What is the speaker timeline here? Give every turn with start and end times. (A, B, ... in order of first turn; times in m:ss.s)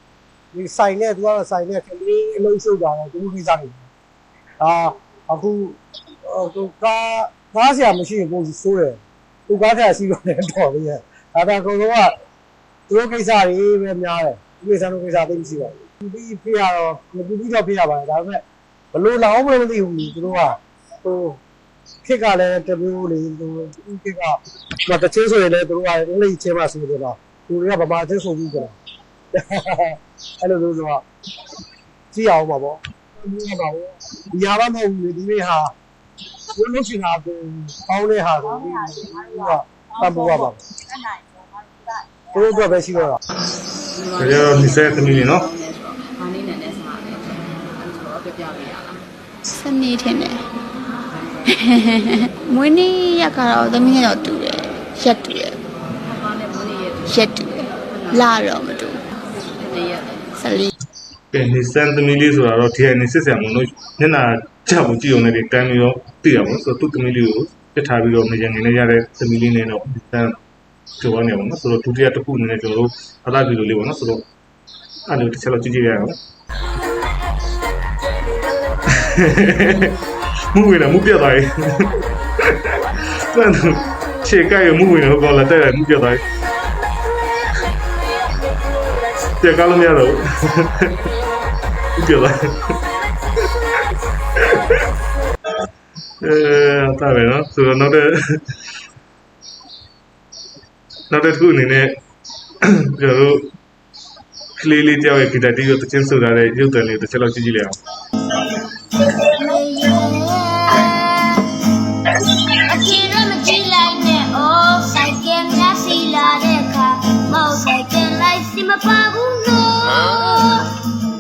0:00.5-0:03.9 A
0:04.6-0:12.1 A
0:12.9-0:18.4 A
0:18.9-0:21.4 A
0:22.0-0:28.8 A
0:29.4-0:31.0 A
0:32.1-0:35.7 A
0:36.6-0:40.6 A
0:42.3-0:43.2 A
0:44.0-0:49.0 B
0:44.1-0:45.5 C
0:49.5-0:50.4 D
0:51.5-0:55.6 D
0:56.2-0:57.0 B
0:57.0-0:59.0 D
0:59.6-1:00.3 B
1:00.4-1:00.7 D
1:01.3-1:10.4 C
1:11.0-1:14.2 C
1:15.1-1:16.2 C
1:18.9-1:20.0 C
1:20.5-1:21.9 C
1:22.5-1:26.2 C
1:29.4-1:31.1 C
1:32.0-1:32.8 C
1:34.4-1:34.8 C
1:36.2-1:38.4 C
1:41.1-1:42.0 C
1:42.6-1:43.5 C
1:44.6-1:47.8 C
1:49.2-1:51.5 E
1:52.6-2:00.7 E